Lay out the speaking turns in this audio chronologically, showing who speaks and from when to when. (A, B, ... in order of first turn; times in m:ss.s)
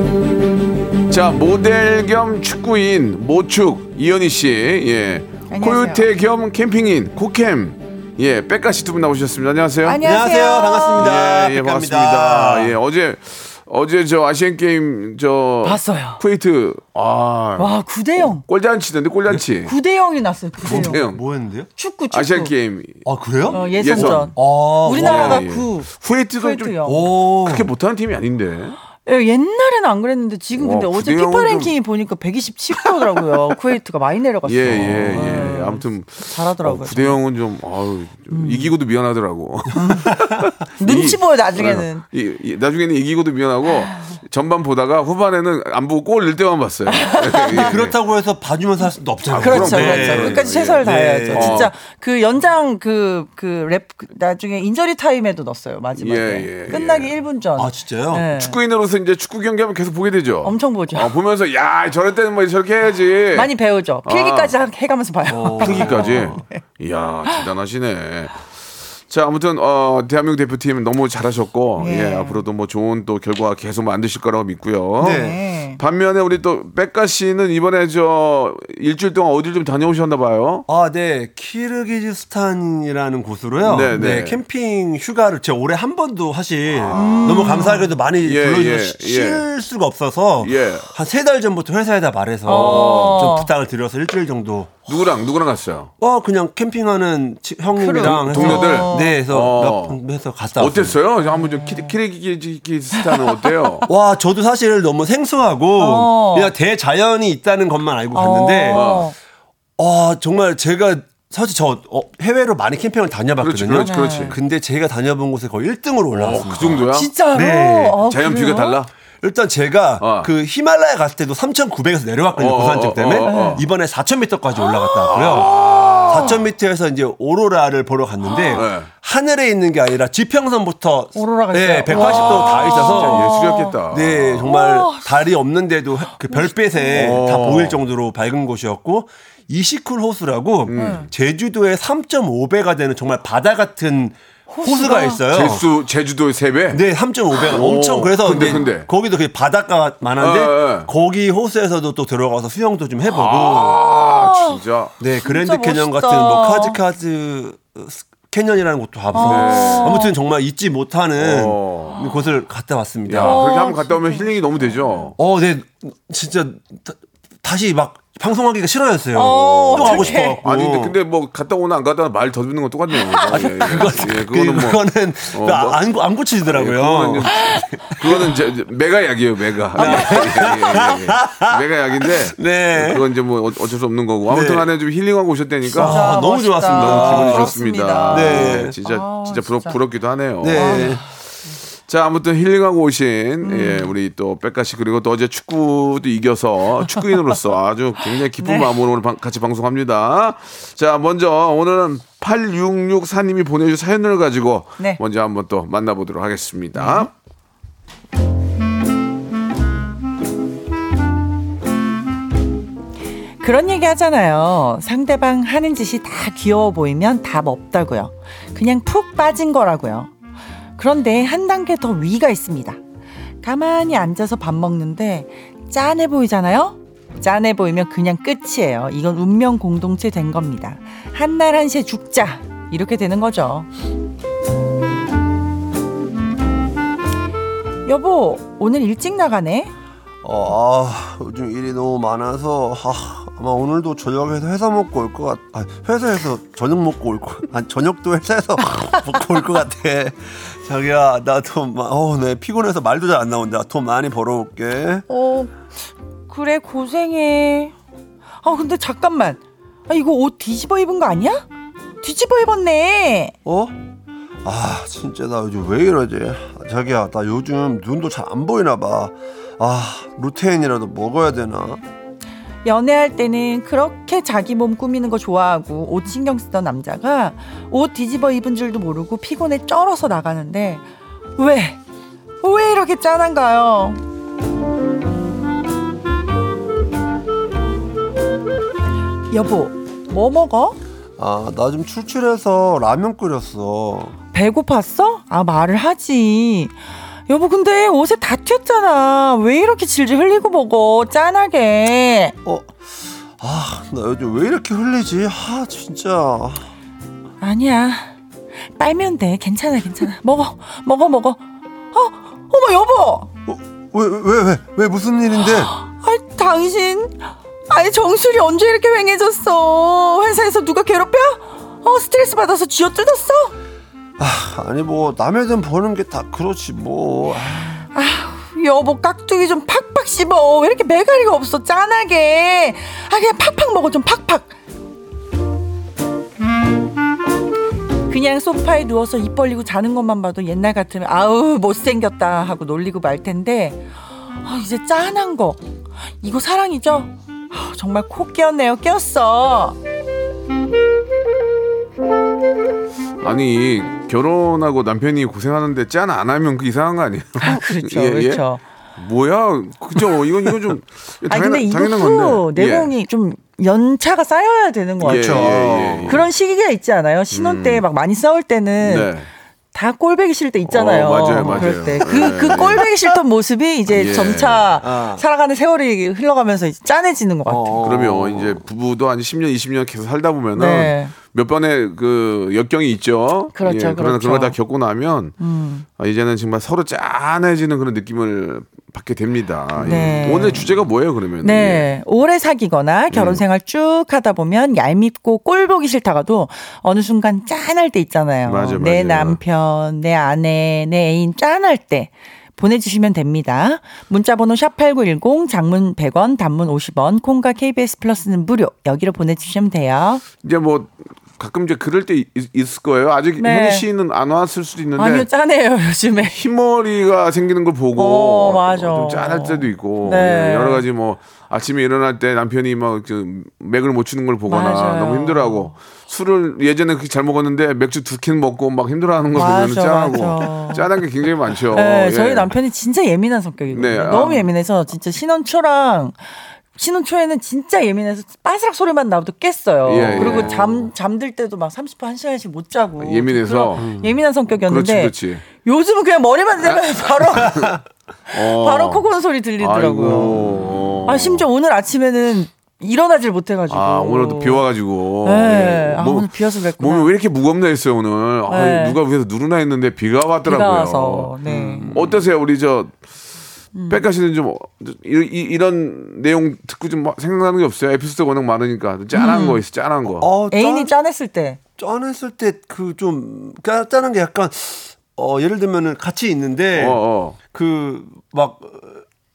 0:01.1-0:10.0 A
0:05.5-0:06.1 B
0:09.8-0:11.1 B
0:10.0-0:12.8 C
0:11.0-0:19.7 A
0:15.6-0:16.2 B
0:17.6-0:18.4 B
0:19.6-0:21.0 B
0:20.6-0:21.7 C
0:20.6-0:21.2 A
0:21.8-0:22.5 B
0:22.1-0:28.8 A
0:23.1-0:25.5 C
0:23.5-0:27.0 B
0:26.8-0:27.7 C
0:29.1-0:37.2 B
0:30.6-0:31.7 A
0:34.4-0:48.0 A
0:38.3-0:38.7 B
0:39.7-0:40.1 B
0:40.8-0:42.0 B
0:46.9-0:47.8 B
0:47.6-0:51.7 C
0:49.3-0:51.7 A
0:49.4-0:58.6 B
0:56.0-0:57.1 A
0:57.6-0:58.3 C
0:58.3-1:03.5 A
1:00.4-1:01.1 B
1:03.3-1:06.6 B
1:04.0-1:04.5 A
1:05.3-1:06.4 C
1:05.6-1:08.4 A
1:09.1-1:20.7 A
1:11.8-1:12.4 B
1:15.0-1:15.4 C
1:15.0-1:15.8 B
1:20.7-1:34.9 C
1:23.6-1:24.4 A
1:26.8-1:27.5 A
1:26.9-1:27.9 B
1:28.2-1:29.4 A
1:30.4-1:30.9 A
1:32.5-1:33.5 B
1:32.5-1:33.3 A
1:34.9-1:35.9 A
1:36.0-1:41.0 C
1:37.8-1:39.1 B
1:38.0-1:40.0 A
1:40.6-1:43.9 A
1:41.5-1:41.9 B
1:43.9-1:49.0 C
1:45.8-1:46.5 B
1:48.1-1:49.1 B
1:48.7-1:49.1 A
1:49.8-1:58.0 C
1:53.4-1:54.4 A
1:53.8-1:54.4 B
1:56.1-1:57.1 A
1:56.9-1:58.8 B
1:58.1-1:58.9 A
1:59.2-2:05.6 C
2:00.0-2:00.3 A
2:02.4-2:03.6 A
2:03.2-2:03.6 B
2:04.9-2:06.4 B
2:05.1-2:06.4 A
2:06.1-2:13.4 C
2:08.3-2:08.6 B
2:08.5-2:08.9 A
2:11.2-2:13.8 B
2:11.9-2:14.5 A
2:13.9-2:25.6 C
2:14.5-2:15.1 B
2:16.3-2:16.9 B
2:16.9-2:17.8 A
2:20.7-2:21.1 A
2:20.7-2:21.1 B
2:24.5-2:25.2 B
2:25.3-2:26.8 A
2:26.7-2:33.8 C
2:27.4-2:28.9 A
2:28.3-2:28.7 B
2:30.2-2:30.9 A
2:33.1-2:34.9 A
2:33.8-2:34.6 B
2:35.0-2:43.5 C
2:35.2-2:36.8 B
2:39.1-2:40.1 B
2:39.2-2:40.0 A
2:41.2-2:42.0 A
2:43.1-2:45.2 A
2:43.2-2:44.2 B
2:45.2-2:51.0 C
2:49.1-2:50.4 B
2:49.7-2:55.8 A
2:53.3-2:58.4 C
2:56.4-3:11.0 A
2:59.7-3:03.0 C
2:59.8-3:00.0 B
3:04.3-3:04.7 C
3:05.7-3:07.5 C
3:05.7-3:09.8 B
3:08.1-3:08.8 C
3:10.4-3:11.0 C
3:10.5-3:11.0 B
3:11.9-3:27.1 A
3:13.4-3:14.0 B
3:18.4-3:18.7 B
3:26.8-3:27.1 B
3:33.4-3:40.1 B
3:40.8-3:42.8 B
3:43.4-3:53.7 B
3:57.9-3:59.7 B
4:00.2-4:15.1 C
4:15.1-4:15.7 B
4:16.3-4:17.8 B
4:18.4-4:21.4 B
4:22.0-4:23.3 B
4:23.4-4:23.8 C
4:24.4-4:31.8 C
4:32.6-4:40.8 B
4:41.4-4:41.8 B
4:42.4-4:44.0 B
4:49.3-4:50.8 B
4:51.2-4:54.2 C
4:54.3-4:56.7 B
4:57.3-5:02.4 B
5:02.4-5:02.9 C
5:03.4-5:06.7 C
5:07.4-5:08.1 B
5:08.8-5:11.4 B
5:11.9-5:13.3 B
5:13.5-5:15.7 C
5:15.7-5:17.2 B
5:17.7-5:23.5 B
5:24.2-5:27.8 C
5:27.9-5:34.6 B
5:38.1-5:43.8 B
5:44.4-5:45.6 B
5:46.2-5:49.8 B
5:53.2-5:58.4 A
5:57.4-5:58.6 B
5:59.0-6:02.9 A
6:01.3-6:09.1 B
6:05.0-6:06.2 C
6:05.0-6:06.3 A
6:07.3-6:07.8 A
6:08.8-6:09.3 A
6:09.7-6:17.8 B
6:10.7-6:12.9 A
6:11.3-6:12.7 C
6:13.9-6:14.8 A
6:14.8-6:15.2 C
6:17.5-6:18.6 C
6:17.8-6:25.4 A
6:20.6-6:21.1 B
6:23.6-6:24.6 B
6:25.4-6:25.8 B
6:26.0-6:31.9 A
6:29.8-6:30.7 B
6:31.4-6:50.2 B
6:33.1-6:33.4 A
6:38.4-6:39.4 A
6:50.4-6:55.3 A
6:53.4-6:53.9 B
6:55.0-6:56.4 B
6:56.3-7:12.5 A
6:58.0-7:00.8 B
7:04.5-7:05.7 B
7:09.4-7:10.8 B
7:11.7-7:16.2 B
7:13.7-7:14.5 A
7:16.8-7:27.7 B
7:19.9-7:20.9 A
7:20.1-7:20.6 C
7:23.0-7:23.9 A
7:23.8-7:24.1 C
7:24.5-7:25.5 A
7:26.6-7:27.7 A
7:28.3-7:30.4 B
7:28.3-7:29.1 A
7:29.6-7:31.5 A
7:30.0-7:30.6 C
7:31.1-7:34.6 B
7:33.7-7:42.9 A
7:35.2-7:37.1 B
7:38.5-7:39.0 B
7:40.4-7:41.9 B
7:41.4-7:42.2 C
7:43.8-7:44.0 B
7:43.9-7:50.3 A
7:49.1-7:49.6 B
7:50.1-7:50.9 C
7:50.5-7:51.6 B
7:51.8-7:57.0 C
7:56.8-7:57.4 A
7:57.5-7:59.0 C